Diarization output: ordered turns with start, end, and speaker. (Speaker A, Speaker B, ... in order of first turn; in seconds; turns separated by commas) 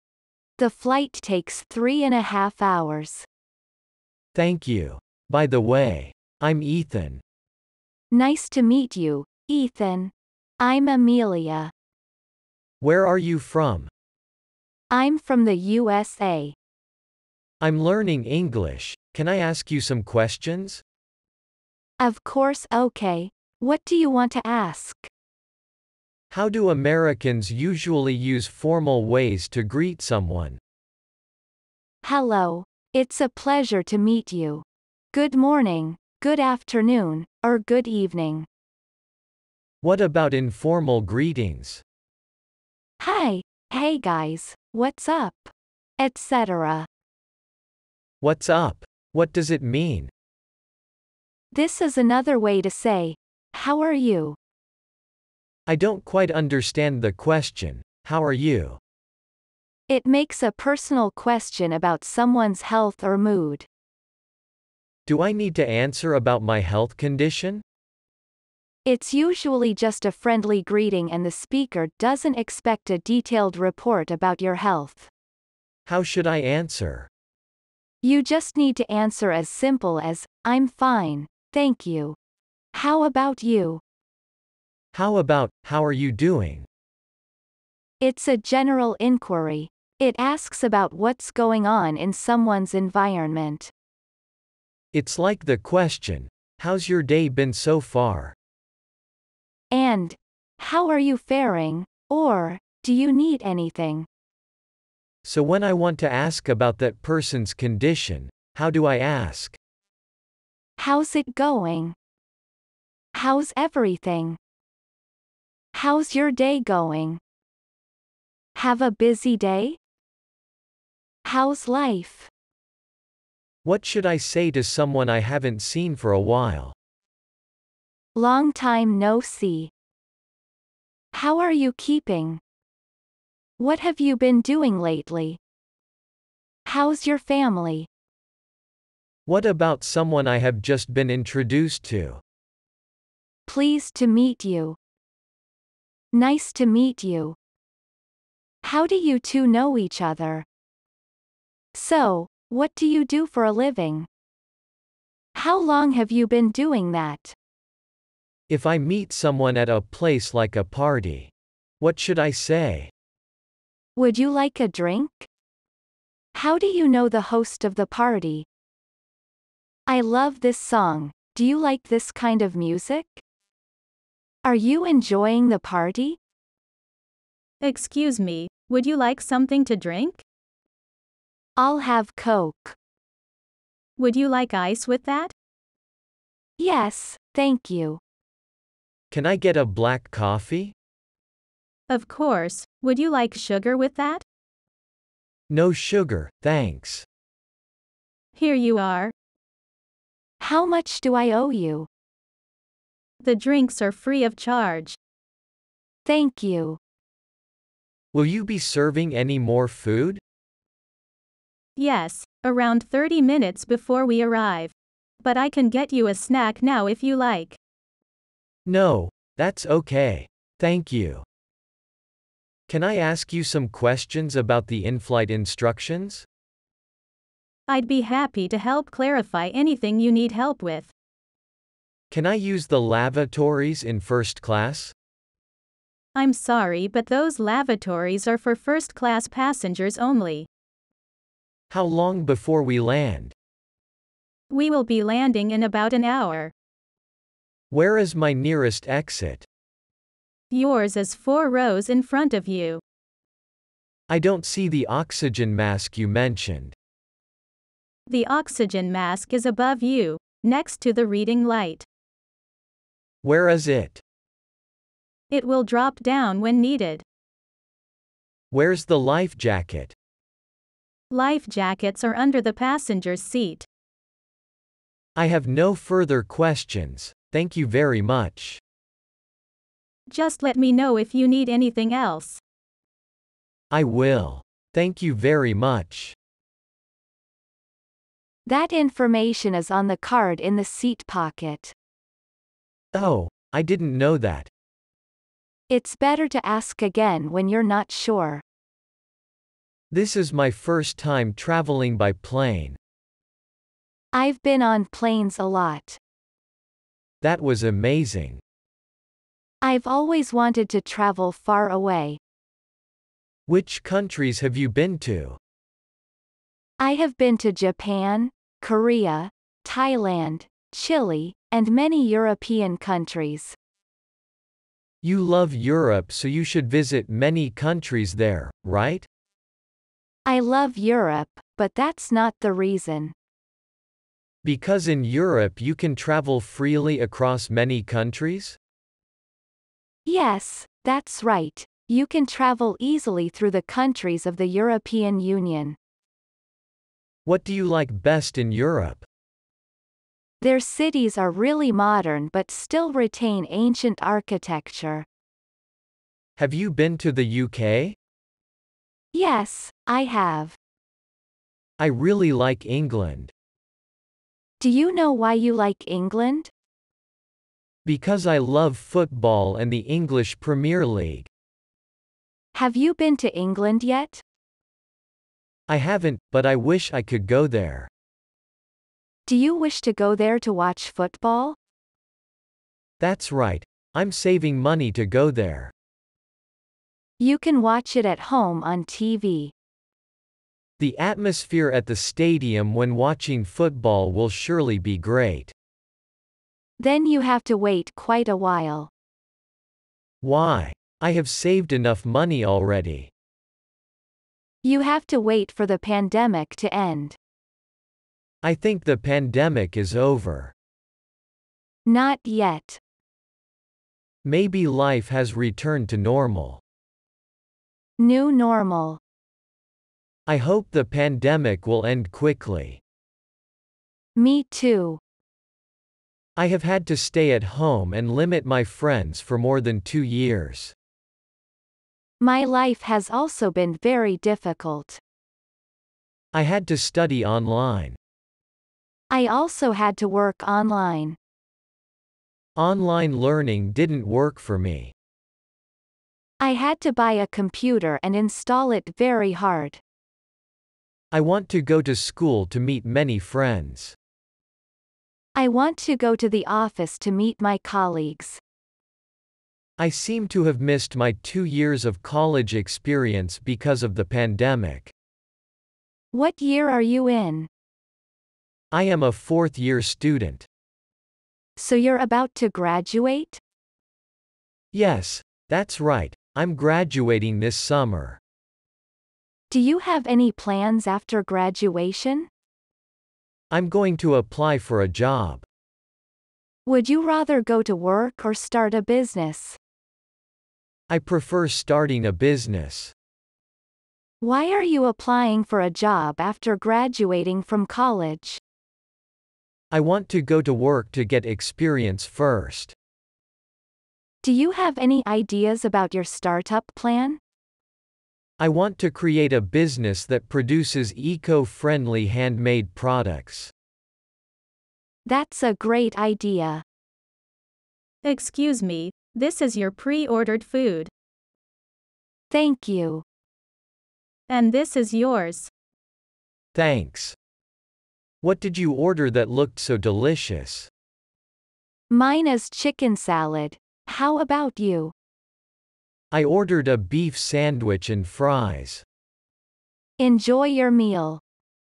Speaker A: 0.6-3.3, Speaker B: 4.3-7.2, Speaker A: 8.1-11.7, Speaker B: 12.8-13.9, Speaker A: 14.9-16.6, Speaker B: 17.6-20.8, Speaker A: 22.0-25.1, Speaker B: 26.3-30.6, Speaker A: 32.0-38.5, Speaker B: 39.8-41.8, Speaker A: 43.0-46.9, Speaker B: 48.2-50.1, Speaker A: 51.5-54.4, Speaker B: 55.7-58.8, Speaker A: 59.9-63.7, Speaker B: 65.0-67.6, Speaker A: 68.8-75.1, Speaker B: 75.8-77.1, Speaker A: 78.0-82.2, Speaker A: 82.7-83.8, Speaker B: 84.9-86.7, Speaker A: 88.0-93.7, Speaker B: 94.9-98.3, Speaker A: 99.7-104.1, Speaker B: 105.2-109.6, Speaker A: 110.8-112.0, Speaker A: 113.1-114.4, Speaker A: 115.7-117.2, Speaker A: 118.5-119.8, Speaker A: 121.2-122.3, Speaker B: 123.6-126.8, Speaker A: 128.1-129.7, Speaker A: 131.1-132.4, Speaker A: 133.6-135.4, Speaker A: 136.6-137.9, Speaker B: 139.3-142.2, Speaker A: 143.4-144.8, Speaker A: 146.1-147.3, Speaker A: 148.6-150.4, Speaker A: 151.7-154.1, Speaker A: 155.3-157.3, Speaker B: 158.5-162.9, Speaker A: 163.9-165.3, Speaker A: 166.3-168.5, Speaker A: 169.9-173.2, Speaker A: 174.4-176.2, Speaker C: 177.6-180.2, Speaker A: 181.6-182.8, Speaker C: 184.0-185.3, Speaker A: 186.6-188.0, Speaker B: 189.1-190.8, Speaker C: 191.9-194.2, Speaker B: 195.5-197.1, Speaker C: 198.3-199.1, Speaker A: 200.4-201.9, Speaker C: 203.2-204.9, Speaker A: 206.0-206.8, Speaker B: 208.1-210.2, Speaker C: 211.8-217.6, Speaker B: 218.7-221.2, Speaker B: 222.7-226.2, Speaker C: 227.7-230.9, Speaker B: 232.1-234.9, Speaker C: 236.1-240.5, Speaker B: 241.7-243.3, Speaker C: 244.5-246.5, Speaker B: 247.7-249.5, Speaker C: 250.5-252.8, Speaker B: 254.1-256.8, Speaker C: 258.1-261.9, Speaker B: 263.2-264.0, Speaker C: 265.3-267.1, Speaker B: 268.5-269.9, Speaker C: 271.1-273.7, Speaker B: 275.2-278.6, Speaker C: 280.1-282.4, Speaker B: 283.7-286.2, Speaker A: 288.5-291.8, Speaker B: 292.9-294.5, Speaker A: 295.7-298.4, Speaker B: 299.9-302.8, Speaker A: 304.1-306.0, Speaker B: 307.2-308.4, Speaker A: 309.6-312.2, Speaker B: 313.5-315.4, Speaker A: 316.8-323.6, Speaker B: 325.0-329.1, Speaker A: 330.2-333.1, Speaker B: 334.4-338.6, Speaker A: 340.1-345.8, Speaker B: 347.2-349.1, Speaker A: 350.4-355.1, Speaker B: 356.4-358.0, Speaker A: 359.1-360.6, Speaker B: 361.8-363.3, Speaker A: 364.6-366.5, Speaker B: 367.9-371.3, Speaker A: 372.5-374.2, Speaker B: 375.7-377.9, Speaker A: 379.2-381.6, Speaker B: 383.0-385.7, Speaker A: 387.2-389.5, Speaker B: 390.8-395.6, Speaker A: 396.8-398.9, Speaker B: 400.2-403.1, Speaker A: 404.6-407.2, Speaker B: 408.4-410.5, Speaker A: 411.9-412.8, Speaker B: 414.2-416.6, Speaker A: 418.0-419.0, Speaker B: 420.3-422.8, Speaker A: 424.2-425.0, Speaker B: 426.4-430.8, Speaker A: 432.2-435.0, Speaker B: 436.3-438.0, Speaker A: 439.1-441.2, Speaker B: 442.6-444.9, Speaker A: 446.4-449.8, Speaker B: 451.1-454.0, Speaker A: 455.4-458.4, Speaker B: 459.8-464.9, Speaker A: 466.1-467.5, Speaker B: 468.7-470.5, Speaker A: 471.6-473.4, Speaker B: 474.7-478.2, Speaker A: 479.5-482.3, Speaker B: 483.5-485.5, Speaker A: 486.7-489.6, Speaker B: 490.9-492.9, Speaker A: 494.2-498.4, Speaker B: 499.7-502.8, Speaker A: 504.2-507.2, Speaker B: 508.4-513.5, Speaker A: 515.0-516.6, Speaker C: 518.0-520.9, Speaker A: 522.3-523.0, Speaker C: 524.3-525.5, Speaker B: 526.5-527.1, Speaker B: 528.2-530.7, Speaker A: 531.9-534.9, Speaker B: 536.1-538.9, Speaker A: 540.0-541.2